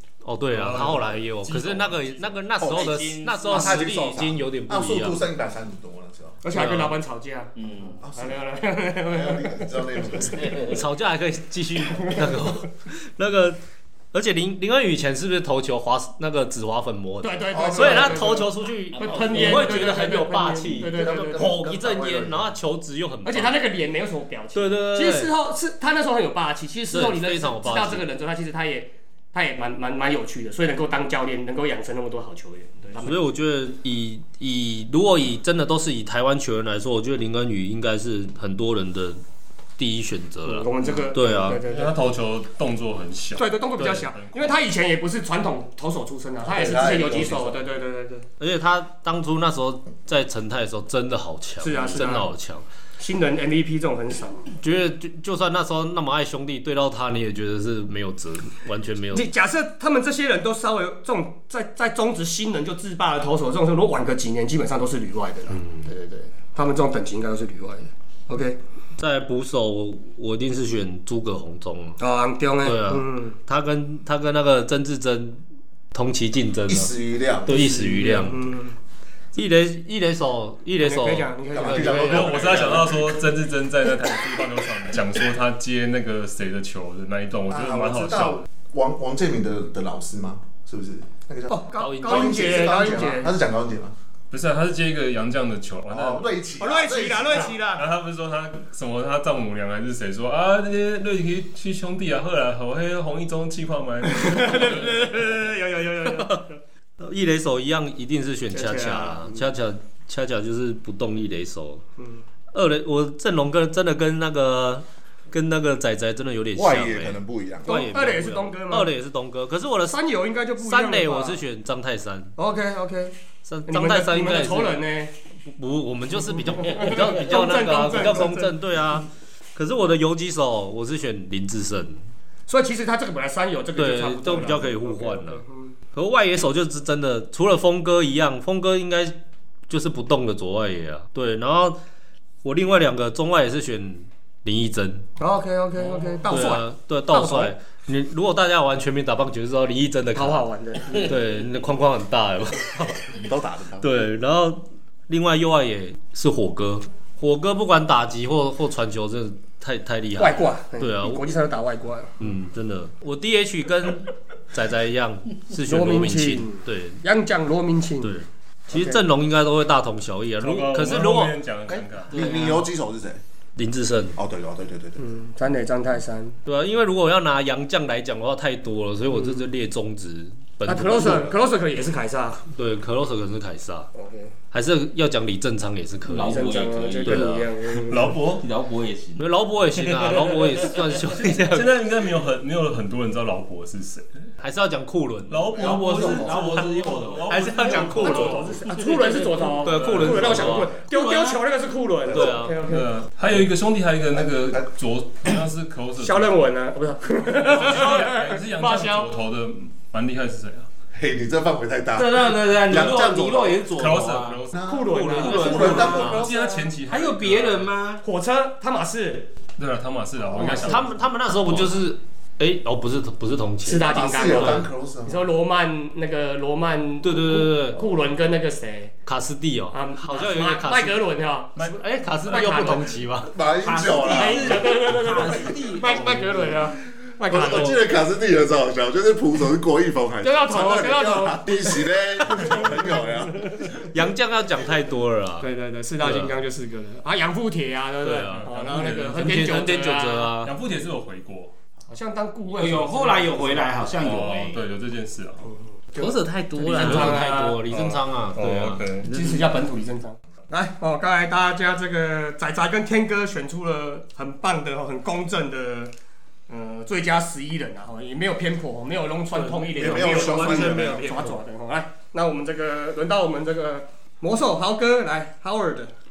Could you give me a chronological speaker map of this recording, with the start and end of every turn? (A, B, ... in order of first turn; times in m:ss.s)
0:00.2-0:05.2 A
0:00.5-0:02.1 B
0:02.6-0:06.4 C
0:02.6-0:03.8 D
0:06.4-0:10.4 E
0:06.5-0:07.0 A
0:07.6-0:08.0 D
0:08.0-0:08.4 C
0:09.0-0:10.6 C
0:10.4-0:10.8 D
0:10.6-0:13.6 A
0:12.0-0:12.5 E
0:14.1-0:23.6 A
0:17.2-0:22.2 E
0:17.5-0:18.3 C
0:18.9-0:20.1 D
0:21.0-0:22.3 C
0:23.2-0:33.2 E
0:24.6-0:25.3 A
0:26.9-0:28.0 A
0:33.0-0:39.2 A
0:39.8-0:41.6 A
0:40.5-0:42.0 E
0:41.6-0:44.6 B
0:43.4-0:48.3 E
0:46.4-0:47.6 C
0:48.4-0:52.6 A
0:51.6-0:52.3 E
0:53.0-0:54.5 E
0:54.6-0:59.3 A
0:59.1-1:08.6 E
1:05.5-1:05.9 A
1:09.0-1:12.0 A
1:12.0-1:13.4 E
1:12.6-1:16.9 A
1:16.7-1:17.7 C
1:17.4-1:18.5 A
1:17.5-1:18.8 E
1:19.4-1:22.7 A
1:20.8-1:22.0 E
1:21.5-1:23.1 C
1:21.9-1:28.4 B
1:27.5-1:34.0 C
1:31.5-1:33.4 E
1:31.8-1:32.9 A
1:34.3-1:36.3 B
1:35.9-1:37.6 C
1:36.6-1:37.9 E
1:37.7-1:45.1 B
1:44.0-1:46.6 E
1:46.0-1:46.4 A
1:47.0-1:51.8 A
1:48.5-1:49.5 E
1:52.0-1:52.2 E
1:52.5-2:00.0 A
1:56.6-1:57.7 C
1:57.7-1:58.9 E
1:59.9-2:01.4 E
2:00.6-2:02.3 A
2:02.4-2:05.2 E
2:03.4-2:04.8 A
2:05.4-2:12.0 A
2:06.2-2:08.6 E
2:12.5-2:15.8 E
2:13.8-2:15.4 A
2:15.9-2:21.8 A
2:22.4-2:25.1 A
2:25.2-2:27.6 E
2:26.3-2:33.2 A
2:30.2-2:31.1 E
2:33.1-2:34.0 C
2:33.8-2:41.2 A
2:40.2-2:42.4 E
2:42.2-2:47.0 A
2:45.6-2:48.2 E
2:48.0-2:51.5 A
2:48.7-2:49.0 E
2:50.4-2:52.4 B
2:51.7-2:53.2 C
2:52.1-2:52.6 A
2:53.6-2:54.2 A
2:54.2-2:55.0 C
2:55.0-2:56.4 E
2:56.5-3:01.3 A
2:59.1-2:59.4 E
3:00.7-3:02.4 E
3:02.5-3:03.9 A
3:03.9-3:04.3 E
3:04.5-3:07.4 A
3:06.0-3:07.5 D
3:06.2-3:08.2 E
3:07.9-3:08.5 B
3:08.3-3:09.3 D
3:09.2-3:11.8 A
3:10.1-3:10.8 D
3:11.5-3:14.1 B
3:14.4-3:20.8 A
3:15.3-3:18.6 B
3:15.5-3:16.6 C
3:16.1-3:17.6 D
3:17.8-3:22.9 E
3:19.7-3:20.6 B
3:22.1-3:22.6 A
3:22.6-3:26.4 B
3:24.2-3:24.7 C
3:26.0-3:29.1 E
3:27.2-3:30.7 B
3:30.9-3:33.7 C
3:32.0-3:34.5 D
3:33.7-3:37.7 B
3:34.6-3:36.3 C
3:34.6-3:36.7 E
3:34.9-3:36.2 A
3:35.2-3:36.2 D
3:36.8-3:38.0 D
3:38.0-3:39.3 E
3:39.6-3:40.9 B
3:40.3-3:40.8 E
3:40.4-3:44.6 A
3:41.5-3:41.8 D
3:43.6-3:48.9 E
3:43.8-3:45.3 C
3:47.0-3:47.9 A
3:49.0-3:51.0 A
3:49.7-3:51.7 E
3:51.6-3:52.9 B
3:51.6-3:53.4 A
3:52.3-3:53.0 E
3:53.3-3:54.6 C
3:53.5-3:56.6 D
3:54.1-3:57.9 E
3:57.3-4:03.8 C
4:00.2-4:03.5 E
4:03.9-4:05.5 A
4:05.4-4:10.3 E
4:06.0-4:06.4 A
4:08.0-4:10.5 A
4:08.3-4:11.5 B
4:11.9-4:13.6 E
4:12.5-4:14.6 D
4:14.0-4:15.5 B
4:15.4-4:17.6 E
4:16.0-4:17.4 D
4:16.1-4:19.0 A
4:17.7-4:19.3 B
4:19.0-4:25.9 E
4:26.5-4:35.9 E
4:29.3-4:31.4 A
4:29.8-4:31.1 C